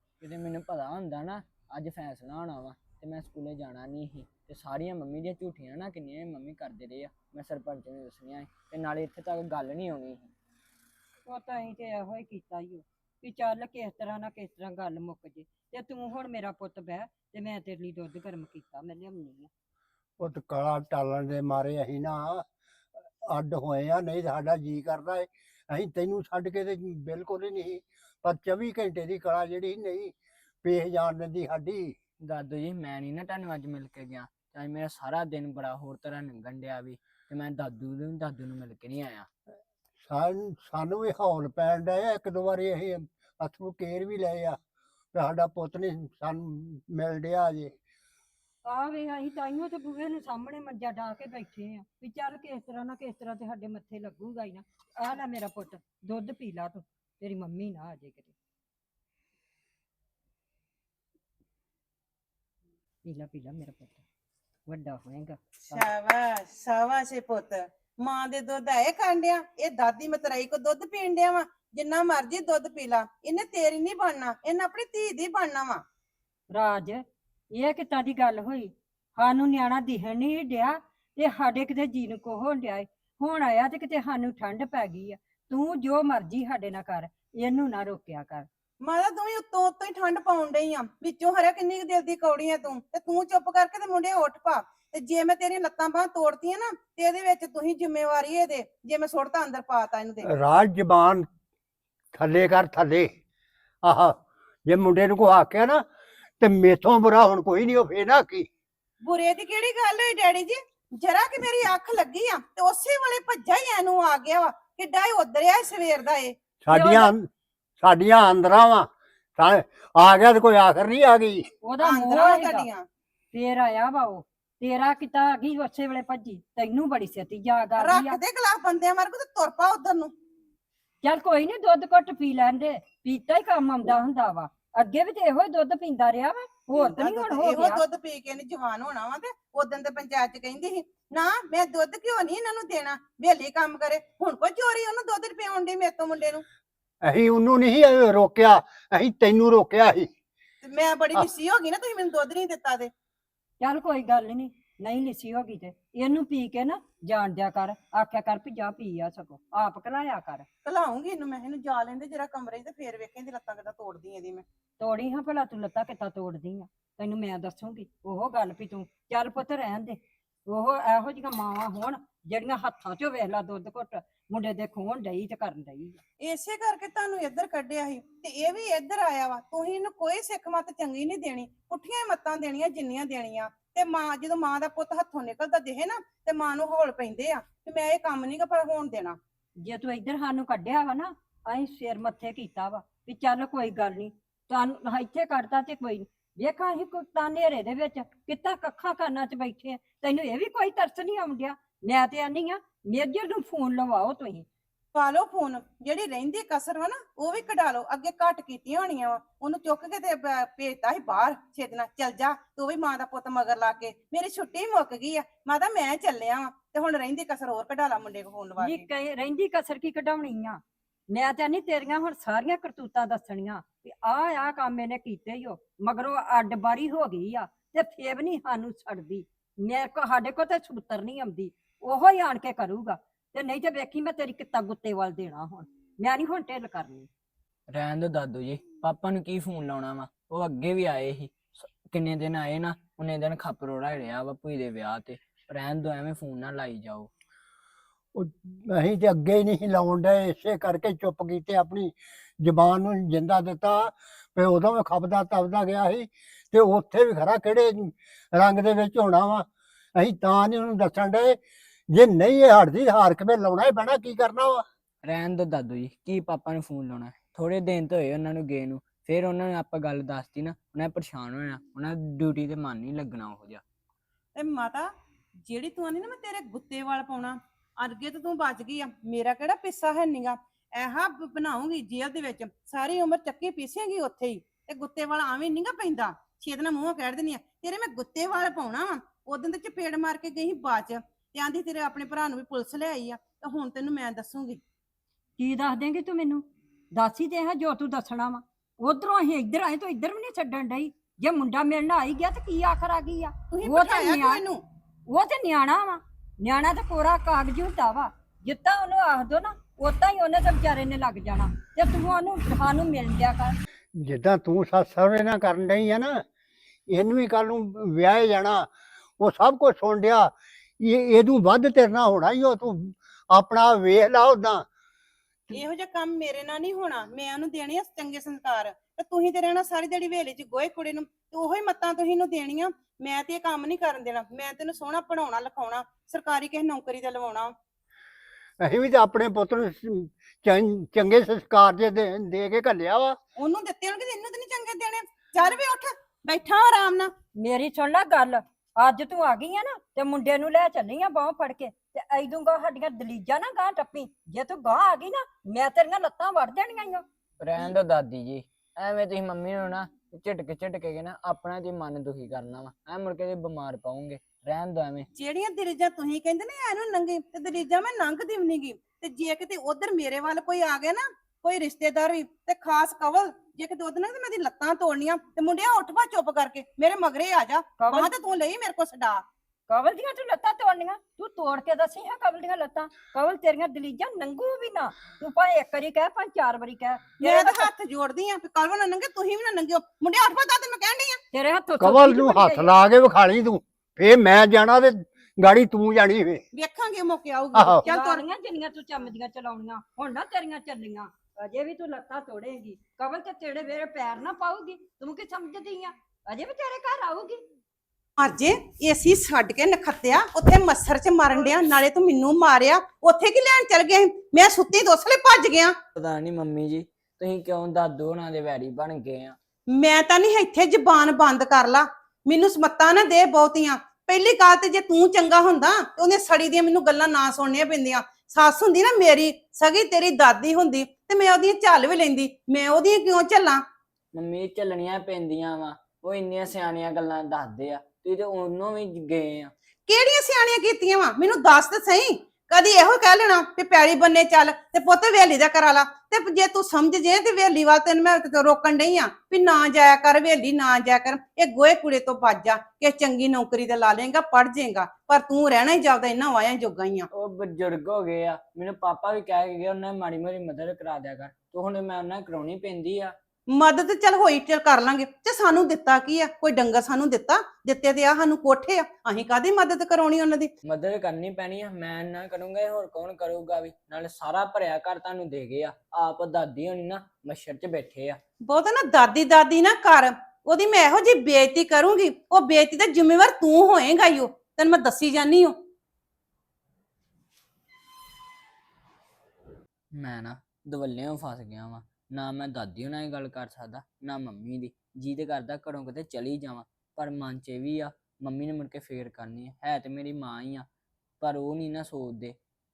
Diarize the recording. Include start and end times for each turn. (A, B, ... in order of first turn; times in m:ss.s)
0:00.2-0:10.3 A
0:11.3-0:19.5 B
0:20.2-0:22.4 C
0:23.2-0:31.9 C
0:32.2-0:39.3 A
0:40.0-0:44.6 C
0:45.1-0:47.8 C
0:48.7-0:58.4 B
1:03.0-1:04.0 B
1:04.7-1:05.9 B
1:05.7-1:15.8 D
1:16.5-1:17.0 B
1:17.5-1:28.5 B
1:28.8-1:40.3 D
1:40.2-1:41.3 C
1:42.1-1:43.1 C
1:43.8-1:45.8 C
1:46.4-1:48.5 C
1:49.0-1:57.1 D
1:56.6-1:57.3 C
1:56.7-1:57.0 B
1:57.8-2:01.5 C
2:01.6-2:02.7 B
2:01.8-2:02.9 D
2:03.3-2:08.2 B
2:07.8-2:10.1 D
2:11.0-2:17.8 B
2:16.7-2:26.4 D
2:27.0-2:30.1 C
2:30.6-2:32.9 D
2:33.6-2:40.5 B
2:40.6-2:44.4 D
2:44.8-2:56.0 B
2:56.2-3:09.2 D
3:09.6-3:24.5 B
3:25.0-3:38.9 D
3:38.6-3:40.6 B
3:41.1-3:57.1 B
3:57.7-4:07.1 A
4:08.2-4:21.4 C
4:21.9-4:24.6 C
4:25.0-4:33.6 A
4:34.4-4:34.9 D
4:35.4-4:54.6 D
4:55.4-5:04.4 B
5:03.5-5:04.6 D
5:05.1-5:13.6 B
5:14.0-5:16.2 C
5:16.9-5:24.7 C
5:25.5-5:37.5 D
5:38.6-5:43.2 C
5:43.4-5:47.1 D
5:47.4-5:57.0 B
5:57.4-6:05.1 A
6:05.2-6:19.2 D
6:17.8-6:18.1 B
6:19.7-6:27.7 B
6:27.2-6:31.2 D
6:31.3-6:32.8 B
6:31.8-6:36.4 C
6:36.5-6:38.2 D
6:37.5-6:37.8 C
6:37.8-6:47.4 B
6:48.2-6:55.7 D
6:56.0-6:59.4 A
6:59.7-7:13.6 D
7:14.1-7:19.5 A
7:19.9-7:37.1 D
7:37.1-7:43.2 A
7:43.5-7:50.5 D
7:50.6-7:58.2 A
7:58.4-8:05.6 D
8:09.9-8:20.7 A
8:21.2-8:22.4 A